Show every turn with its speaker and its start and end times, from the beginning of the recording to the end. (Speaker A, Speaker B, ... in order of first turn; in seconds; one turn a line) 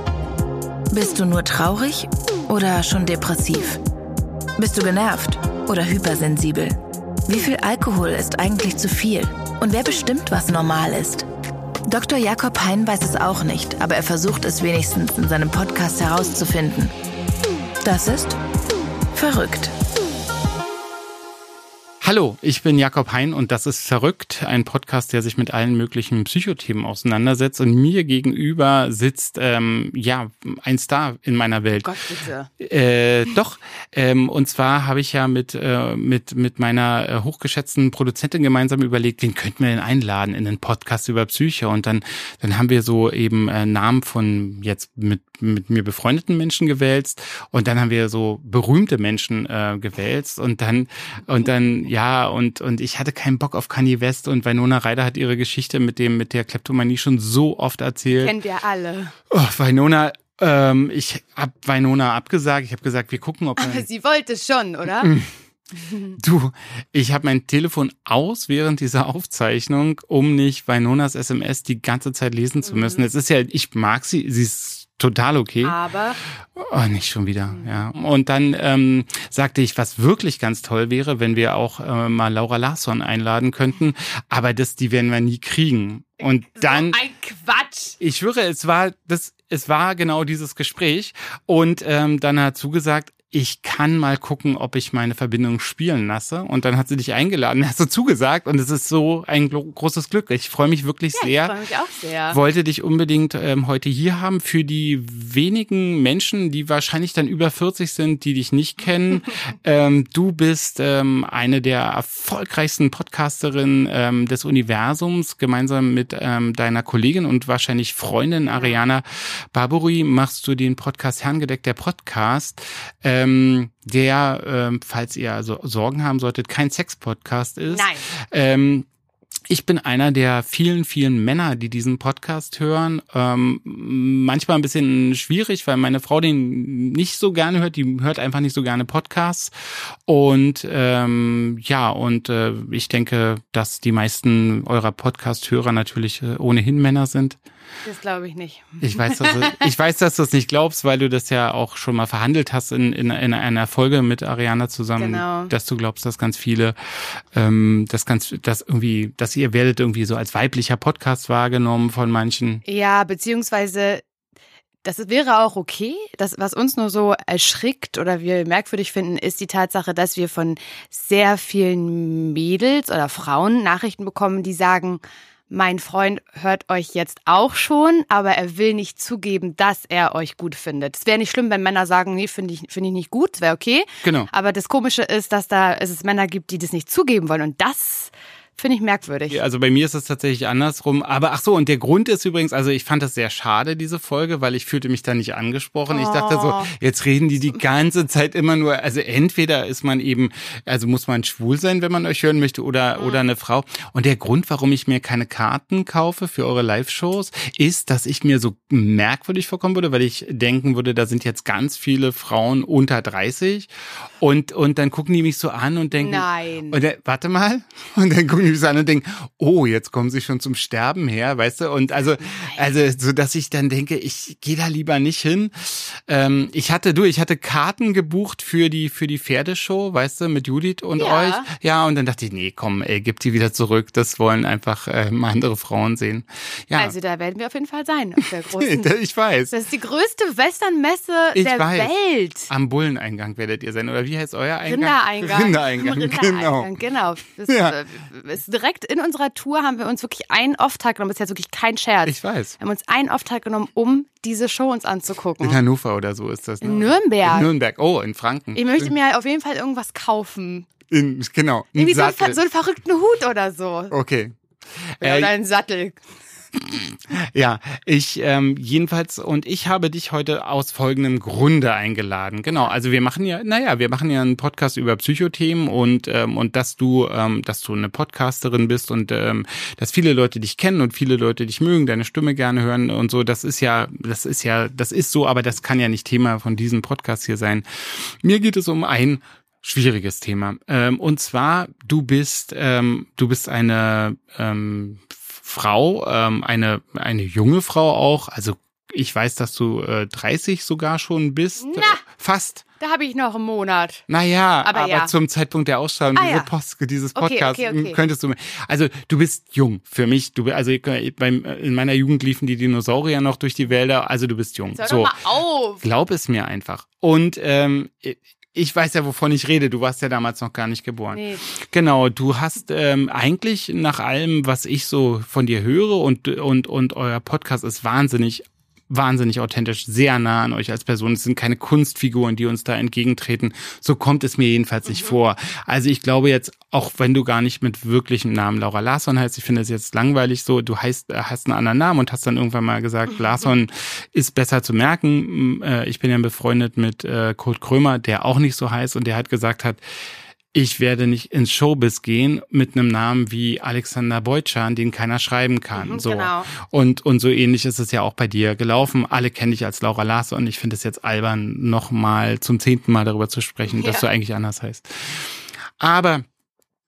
Speaker A: 0.9-3.8
Speaker A: 4.6-11.2
Speaker A: 11.9-16.9
Speaker A: 17.8-18.4
Speaker A: 19.1-19.7
Speaker B: 22.0-31.9
Speaker C: 31.8-32.5
Speaker B: 32.6-58.3
Speaker C: 58.1-59.1
Speaker B: 59.3-63.9
Speaker C: 63.6-65.1
Speaker B: 65.0-65.3
Speaker C: 65.8-66.1
Speaker B: 66.2-75.8
Speaker C: 72.7-73.0
Speaker C: 75.6-76.2
Speaker B: 76.5-87.0
Speaker C: 86.5-88.0
Speaker B: 88.0-101.6
Speaker C: 101.1-102.4
Speaker B: 102.3-128.9
Speaker C: 118.5-118.8
Speaker C: 127.7-128.0
Speaker B: 129.5-139.5
Speaker B: 140.1-147.4
Speaker C: 147.8-149.6
Speaker B: 148.8-162.6
Speaker C: 155.0-155.5
Speaker C: 162.6-164.0
Speaker C: 164.8-189.4
Speaker B: 184.0-184.3
Speaker B: 189.3-236.9
Speaker C: 195.9-196.7
Speaker C: 215.9-216.8
Speaker C: 222.3-222.6
Speaker C: 231.0-231.5
Speaker C: 236.8-238.9
Speaker B: 238.6-239.5
Speaker C: 239.5-242.5
Speaker B: 241.3-241.9
Speaker B: 242.5-246.7
Speaker C: 244.7-255.6
Speaker B: 247.4-247.8
Speaker B: 252.1-252.5
Speaker B: 255.4-258.9
Speaker C: 256.6-257.5
Speaker C: 258.5-260.7
Speaker B: 260.9-262.4
Speaker C: 261.8-263.9
Speaker B: 263.9-265.3
Speaker C: 265.0-266.0
Speaker B: 266.5-302.6
Speaker C: 301.6-302.0
Speaker C: 302.8-304.0
Speaker B: 304.1-315.2
Speaker C: 304.6-305.1
Speaker C: 306.1-306.5
Speaker C: 307.1-308.0
Speaker C: 314.8-315.8
Speaker B: 315.8-349.8
Speaker C: 321.1-321.4
Speaker B: 350.5-366.2
Speaker C: 355.7-356.5
Speaker C: 363.7-364.1